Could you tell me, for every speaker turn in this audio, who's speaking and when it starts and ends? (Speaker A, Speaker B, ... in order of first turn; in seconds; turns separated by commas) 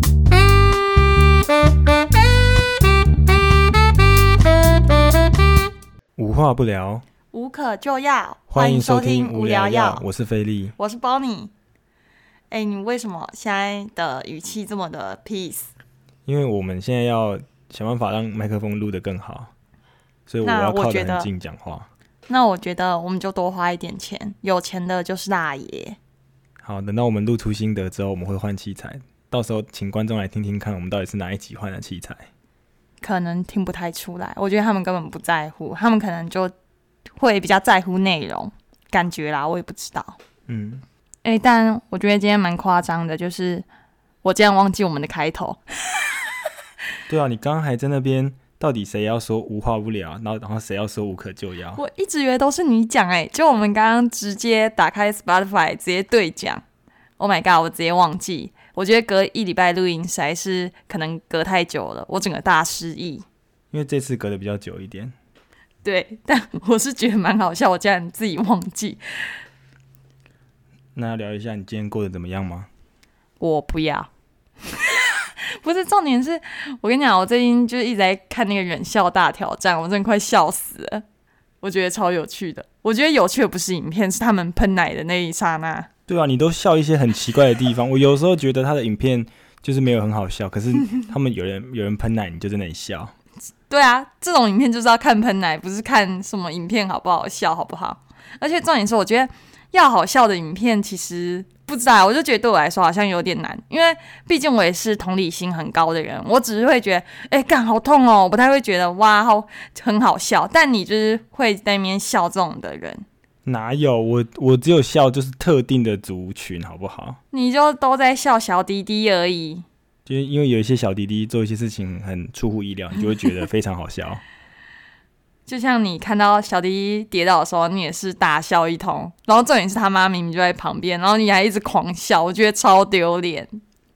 Speaker A: 6.2-7.0, Speaker B: 7.3-10.1, Speaker A: 8.5-10.7, Speaker B: 10.8-11.5, Speaker B: 12.5-15.7, Speaker A: 16.2-19.5, Speaker A: 20.3-21.9, Speaker B: 20.4-21.3, Speaker B: 22.3-26.0, Speaker A: 26.6-32.3, Speaker B: 33.0-36.5, Speaker B: 37.2-40.2, Speaker A: 40.5-40.8, Speaker B: 41.2-43.6, Speaker B: 44.2-46.4, Speaker A: 47.1-51.8, Speaker B: 51.8-56.6, Speaker B: 57.2-63.2, Speaker A: 63.7-65.1, Speaker B: 65.8-69.0, Speaker A: 71.0-72.7, Speaker B: 73.4-74.1, Speaker B: 74.6-81.0, Speaker B: 81.6-85.9, Speaker A: 86.1-93.1, Speaker B: 93.7-113.0, Speaker A: 113.5-117.2, Speaker B: 117.3-119.6, Speaker A: 120.0-124.2, Speaker B: 125.5-133.5